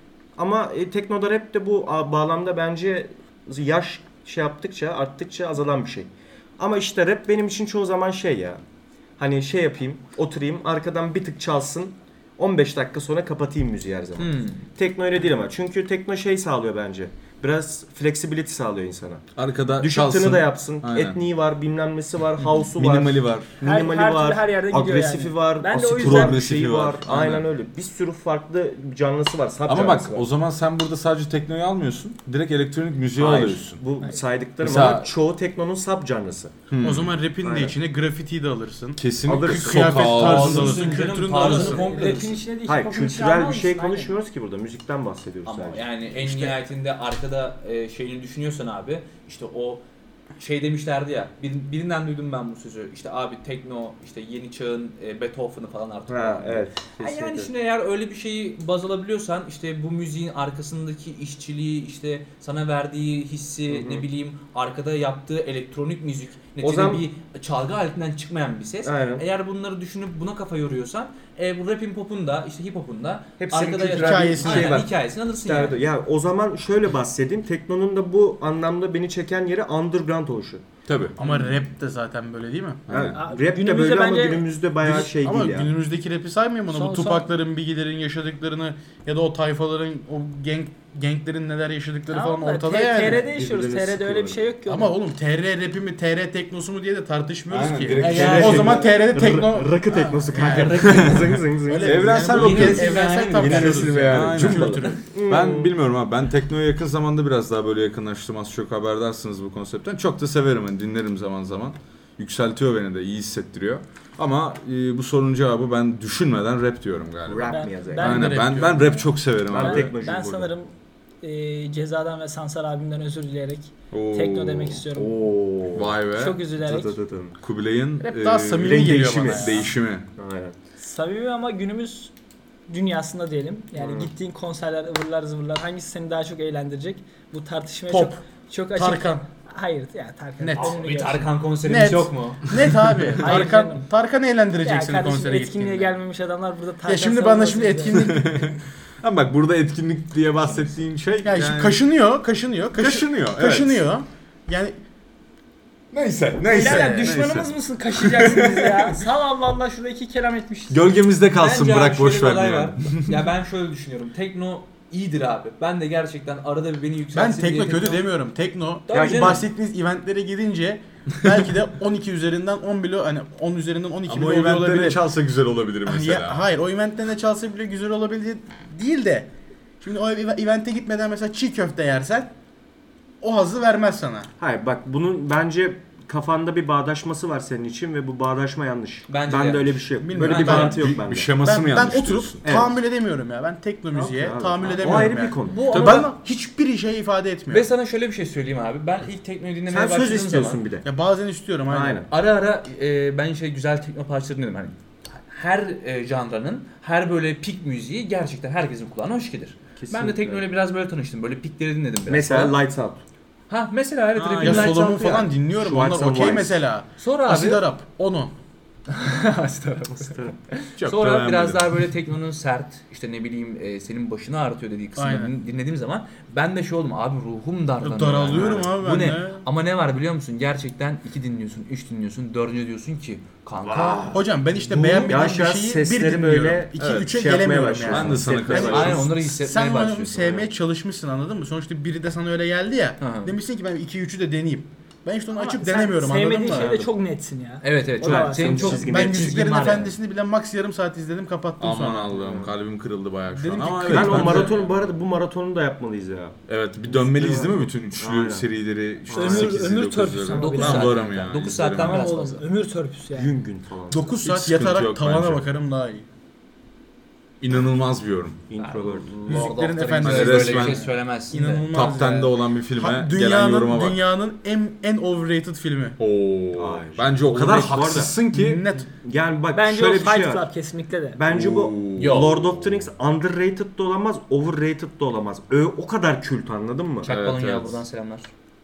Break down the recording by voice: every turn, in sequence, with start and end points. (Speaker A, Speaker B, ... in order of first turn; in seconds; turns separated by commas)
Speaker A: 0.4-8.6, Speaker A: 9.2-19.2, Speaker B: 14.2-14.7, Speaker C: 19.4-21.2, Speaker A: 19.8-30.3, Speaker C: 22.7-23.5, Speaker D: 23.6-26.5, Speaker C: 26.0-27.4, Speaker C: 29.7-33.8, Speaker A: 33.2-36.5, Speaker C: 34.6-35.1, Speaker C: 36.7-37.2, Speaker E: 36.8-42.2, Speaker A: 37.4-37.8, Speaker C: 39.0-40.9, Speaker A: 39.2-40.7, Speaker B: 40.0-42.4, Speaker D: 41.4-44.1, Speaker A: 42.7-45.9, Speaker B: 45.5-49.8, Speaker E: 46.2-46.5, Speaker B: 50.4-75.8, Speaker A: 56.1-57.5, Speaker A: 63.7-64.0, Speaker A: 66.6-67.0, Speaker A: 68.8-69.2, Speaker A: 73.4-74.1, Speaker C: 73.9-74.9, Speaker E: 74.0-74.8, Speaker A: 75.4-80.6, Speaker C: 80.9-81.2, Speaker E: 81.2-82.8, Speaker C: 82.9-83.2, Speaker A: 82.9-85.7, Speaker D: 83.0-84.5, Speaker E: 84.8-93.2, Speaker D: 86.7-87.2, Speaker D: 92.1-95.0, Speaker A: 93.1-94.4, Speaker E: 94.7-101.0, Speaker C: 97.5-98.9, Speaker A: 98.0-105.7, Speaker B: 100.3-101.4, Speaker C: 101.0-103.0, Speaker E: 101.7-105.0, Speaker B: 102.3-104.0, Speaker C: 104.0-119.9, Speaker A: 117.3-118.3, Speaker D: 117.5-120.7, Speaker E: 118.0-118.9, Speaker A: 119.5-120.5, Speaker D: 121.2-125.2, Speaker C: 123.9-124.8, Speaker A: 124.9-126.0, Speaker C: 125.8-126.5, Speaker D: 126.1-127.0, Speaker A: 126.6-127.3, Speaker C: 127.4-130.1, Speaker E: 128.0-129.6, Speaker A: 128.6-130.6, Speaker D: 130.8-132.1, Speaker D: 132.7-141.3, Speaker A: 133.8-134.1, Speaker E: 137.9-138.2, Speaker E: 138.8-139.2, Speaker E: 140.4-140.8, Speaker B: 140.6-142.5, Speaker E: 141.6-145.9, Speaker D: 143.2-143.9, Speaker D: 144.6-148.2, Speaker E: 146.9-148.6, Speaker C: 148.1-151.8, Speaker E: 151.2-154.8, Speaker C: 152.8-153.8, Speaker C: 155.9-159.0, Speaker D: 156.5-160.9, Speaker E: 156.5-157.1, Speaker C: 160.7-163.2, Speaker B: 161.3-168.1, Speaker E: 167.1-175.1, Speaker B: 168.9-169.5, Speaker A: 168.9-169.3, Speaker D: 168.9-169.2, Speaker C: 174.1-176.4, Speaker E: 175.8-179.3, Speaker E: 179.8-182.3, Speaker E: 183.2-184.3, Speaker A: 184.4-191.3, Speaker B: 189.1-190.8, Speaker E: 190.0-197.7, Speaker C: 190.5-192.4, Speaker A: 192.4-192.8, Speaker A: 193.9-196.0, Speaker B: 194.8-196.1, Speaker C: 195.7-196.1, Speaker B: 197.5-200.6, Speaker A: 199.7-200.9, Speaker E: 200.8-202.0, Speaker A: 201.7-202.1, Speaker B: 202.1-204.8, Speaker B: 205.3-212.6, Speaker A: 209.8-210.4, Speaker A: 212.1-213.0, Speaker B: 213.5-215.3, Speaker C: 214.2-214.7, Speaker E: 214.4-218.3, Speaker A: 214.4-214.8, Speaker A: 215.6-216.6, Speaker B: 217.0-217.7, Speaker B: 218.9-234.2, Speaker A: 220.0-220.4, Speaker C: 220.8-221.8, Speaker E: 225.0-225.3, Speaker E: 227.8-229.4, Speaker A: 233.6-234.2, Speaker E: 234.1-246.8, Speaker C: 234.8-235.1, Speaker A: 235.0-239.1, Speaker C: 236.8-237.1, Speaker C: 237.8-239.1, Speaker B: 238.5-240.4, Speaker B: 243.0-243.4, Speaker D: 245.3-248.9, Speaker A: 246.5-246.9, Speaker B: 247.6-249.9, Speaker A: 248.0-249.6, Speaker E: 248.8-252.4, Speaker C: 251.6-254.7, Speaker E: 253.3-254.6, Speaker A: 253.9-258.5, Speaker B: 254.1-254.7, Speaker C: 256.5-262.1, Speaker A: 259.1-259.6, Speaker D: 259.1-263.3, Speaker B: 260.4-262.4, Speaker A: 263.1-264.2, Speaker E: 263.9-266.1, Speaker C: 264.2-265.5, Speaker C: 267.4-268.4, Speaker A: 268.5-269.6, Speaker B: 268.6-271.7, Speaker E: 269.3-276.0, Speaker C: 270.0-270.9, Speaker C: 271.7-274.0, Speaker C: 276.0-278.6, Speaker A: 276.5-278.2, Speaker E: 278.3-278.9, Speaker A: 279.0-280.5, Speaker D: 279.5-281.2, Speaker A: 281.1-287.1, Speaker C: 281.3-282.9, Speaker B: 282.0-282.5, Speaker B: 287.0-288.3, Speaker C: 287.0-287.8